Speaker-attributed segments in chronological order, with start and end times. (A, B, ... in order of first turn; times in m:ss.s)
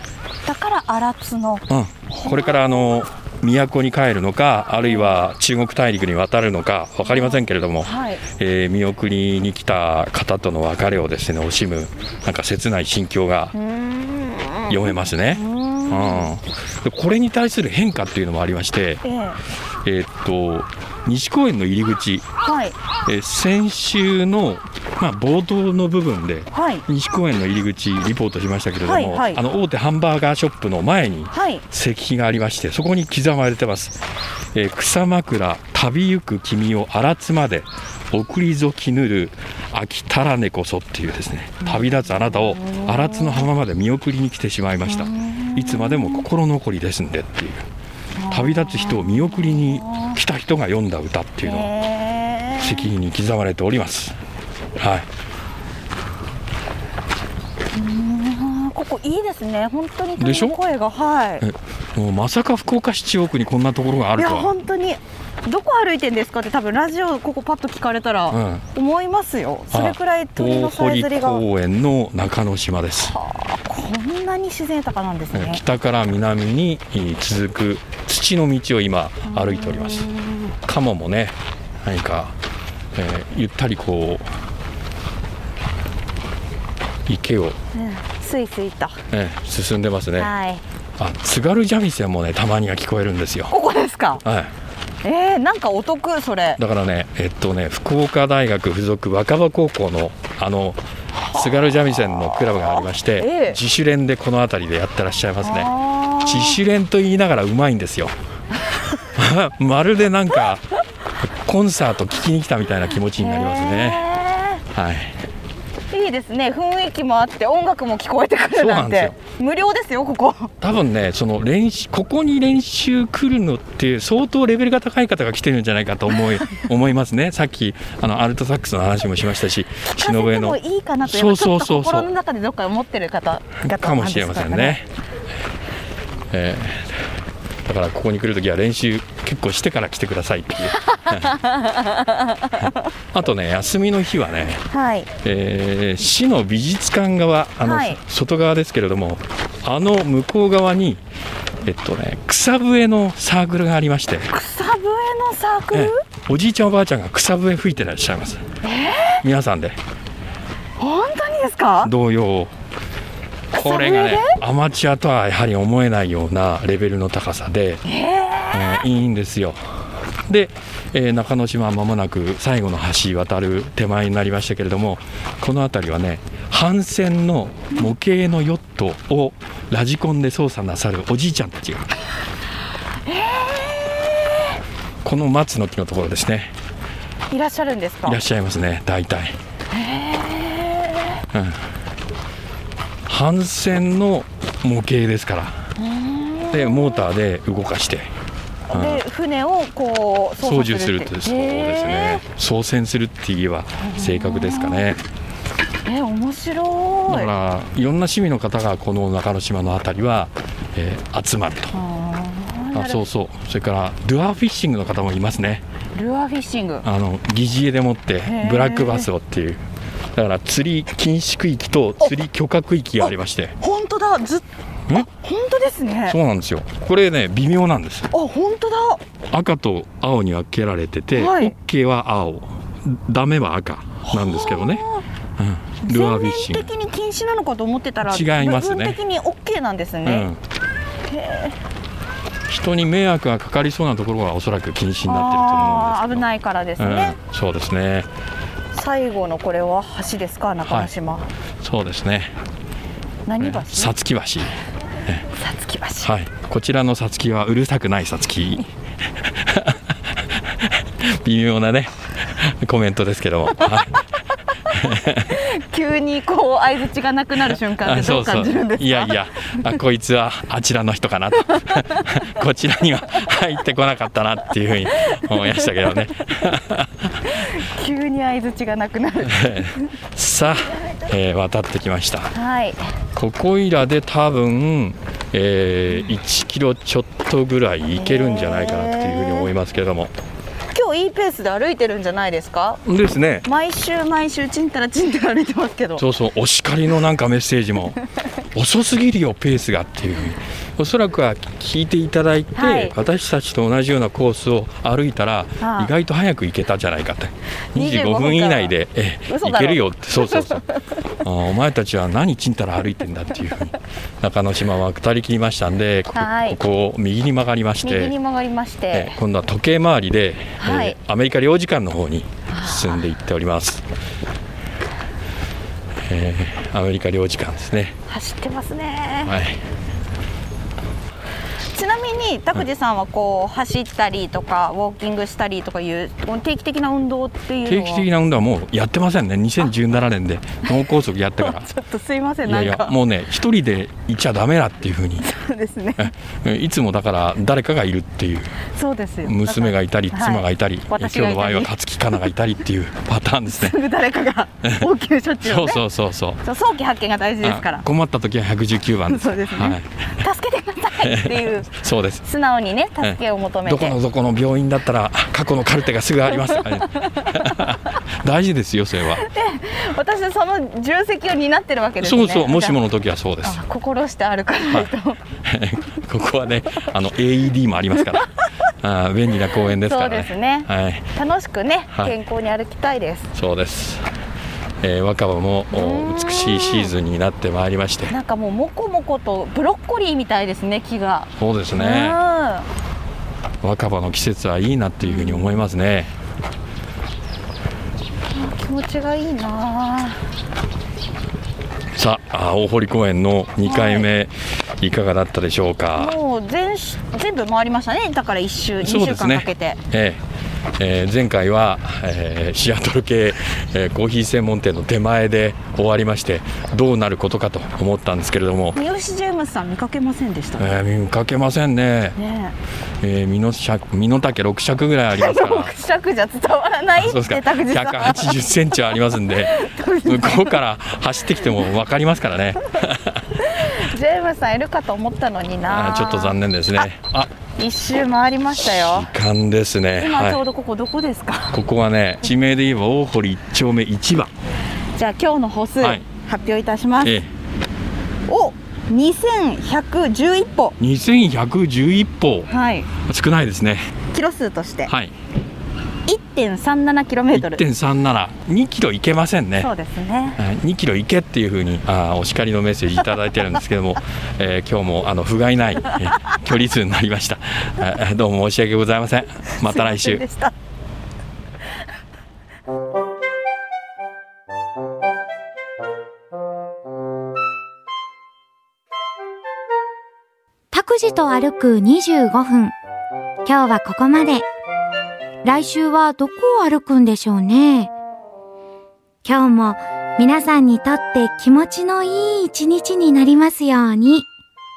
0:00.5-0:02.9 A
0:01.7-0:13.5 B
0:07.0-0:08.2 A
0:13.5-0:16.3 A
0:14.7-0:19.0 B
0:19.0-0:19.4 A
0:19.8-0:22.3 B
0:22.4-0:22.8 A
0:23.0-0:34.0 B
0:26.5-0:26.9 A
0:28.8-0:29.4 A
0:31.3-0:31.6 A
0:34.5-0:47.7 B
0:41.6-0:43.5 A
0:44.9-0:46.2 A
0:48.2-0:50.2 A
0:48.3-0:51.7 B
0:51.4-0:52.9 A
0:52.6-0:54.2 B
0:54.8-0:55.1 B
0:57.7-1:01.5 A
1:00.2-1:00.6 B
1:01.4-1:04.5 B
1:04.2-1:11.4 A
1:08.3-1:08.6 B
1:09.7-1:13.2 B
1:13.1-1:15.6 A
1:15.3-1:20.1 B
1:19.3-1:20.5 A
1:20.6-1:22.4 B
1:22.9-1:24.3 B
1:27.1-1:27.6 B
1:27.7-1:29.0 A
1:29.1-1:30.3 B
1:30.2-1:30.6 A
1:31.0-1:33.6 B
1:33.5-1:34.2 A
1:34.2-1:34.5 B
1:35.0-1:36.6 A
1:36.6-1:40.8 B
1:41.3-1:48.1 B
1:42.3-1:43.6 A
1:45.4-1:46.6 A
1:48.7-1:49.0 A
1:49.1-1:50.6 B
1:51.2-1:54.1 B
1:53.1-1:54.6 A
1:54.7-1:55.2 B
1:55.9-2:00.5 A
1:58.6-1:59.2 B
2:00.6-2:12.1 B
2:09.9-2:14.8 A
2:13.6-2:14.9 B
2:16.3-2:17.1 B
2:17.6-2:21.3 B
2:20.8-2:22.9 A
2:22.6-2:24.6 B
2:24.7-2:25.1 A
2:25.2-2:31.0 B
2:27.6-2:28.0 A
2:31.6-2:34.3 B
2:34.3-2:36.0 A
2:35.7-2:38.4 B
2:38.6-2:39.2 A
2:39.2-2:39.8 B
2:40.8-2:41.9 A
2:41.8-2:42.5 B
2:43.5-2:44.4 A
2:43.5-2:47.8 B
2:47.8-2:48.8 A
2:48.5-2:49.7 B
2:50.3-3:01.9 B
3:03.1-3:04.6 A
3:05.0-3:06.5 B
3:07.3-3:08.2 A
3:08.1-3:09.4 B
3:09.7-3:11.2 A
3:11.3-3:11.7 B
3:13.1-3:15.6 B
3:15.8-3:17.1 A
3:16.5-3:18.1 B
3:18.7-3:22.2 A
3:18.7-3:19.0 B
3:20.4-3:25.0 B
3:23.8-3:24.9 A
3:25.8-3:27.3 A
3:27.1-3:31.8 B
3:31.7-3:33.0 A
3:32.7-3:35.6 B
3:36.0-3:36.9 A
3:36.8-3:39.6 B
3:38.3-3:39.1 A
3:40.2-3:43.6 B
3:43.6-3:46.2 A
3:46.1-3:48.1 B
3:48.1-3:49.0 A
3:49.3-3:54.8 B
3:51.1-3:51.5 A
3:54.0-3:55.0 A
3:55.4-3:56.7 B
3:55.8-4:00.3 A
3:58.0-3:59.0 B
4:00.0-4:00.4 B
4:01.1-4:01.6 A
4:02.5-4:06.2 B
4:05.0-4:07.2 A
4:06.8-4:08.1 B
4:08.7-4:11.3 A
4:10.7-4:10.9 B
4:11.6-4:12.4 B
4:13.3-4:14.0 A
4:13.4-4:15.2 B
4:15.3-4:16.1 A
4:16.0-4:24.0 B
4:24.7-4:25.4 B
4:25.2-4:29.6 A
4:27.8-4:37.3 B
4:31.6-4:32.0 A
4:37.2-4:39.9 A
4:39.2-4:42.3 B
4:42.3-4:42.8 A
4:43.2-4:50.1 B
4:48.0-4:49.5 A
4:50.7-4:52.8 A
4:52.8-4:53.5 B
4:53.4-4:56.0 A
4:56.0-4:58.0 B
4:58.6-5:10.6 B
5:02.6-5:03.0 A
5:05.6-5:05.9 A
5:07.7-5:08.8 A
5:09.3-5:11.0 A
5:11.2-5:18.1 B
5:16.1-5:16.6 A
5:17.8-5:19.2 A
5:18.9-5:23.8 B
5:20.6-5:21.0 A
5:22.5-5:23.0 A
5:26.1-5:28.0 B
5:28.1-5:29.4 A
5:29.2-5:29.6 B
5:31.7-5:38.1 A
5:37.6-5:41.7 B
5:41.4-5:43.0 A
5:42.4-5:45.3 B
5:45.2-5:46.1 A
5:46.0-5:48.6 B
5:48.6-5:51.7 A
5:49.2-5:53.8 B
5:53.5-5:55.8 A
5:55.4-5:56.4 B
5:56.4-5:57.8 A
5:57.4-5:59.9 B
5:59.1-6:01.7 A
6:01.0-6:02.2 B
6:02.2-6:04.0 A
6:03.0-6:09.2 B
6:06.5-6:07.6 A
6:09.1-6:12.8 A
6:12.0-6:13.6 B
6:13.4-6:15.2 A
6:15.4-6:18.3 B
6:18.8-6:21.1 B
6:19.8-6:23.3 A
6:23.4-6:24.0 B
6:24.8-6:28.2 B
6:25.7-6:26.9 A
6:28.1-6:32.7 A
6:31.4-6:32.2 B
6:33.6-6:36.1 B
6:35.0-6:35.7 A
6:38.3-6:40.3 A
6:41.9-6:46.2 B
6:43.6-6:44.1 A
6:46.0-6:49.8 A
6:48.8-6:50.2 B
6:50.8-6:58.8 B
6:58.7-7:00.7 A
7:00.6-7:02.2 B
7:02.2-7:02.6 A
7:03.0-7:05.7 B
7:05.1-7:08.4 A
7:07.0-7:13.2 B
7:09.3-7:10.6 A
7:13.4-7:16.4 A
7:15.7-7:17.3 B
7:17.6-7:19.1 A
7:18.6-7:20.4 B
7:20.0-7:21.6 A
7:21.5-7:24.3 B
7:25.0-7:27.2 A
7:27.0-7:27.3 B
7:28.3-7:30.8 A
7:30.8-7:33.9 B
7:32.5-7:32.9 A
7:34.1-7:34.9 A
7:34.9-7:35.1 B
7:36.1-7:37.6 A
7:37.3-7:39.7 B
7:39.6-7:40.4 A
7:40.4-7:50.2 B
7:49.6-7:50.6 A
8:00.7-8:02.7 C
8:03.4-8:04.4 C
8:05.4-8:07.9 C
8:09.2-8:14.3 C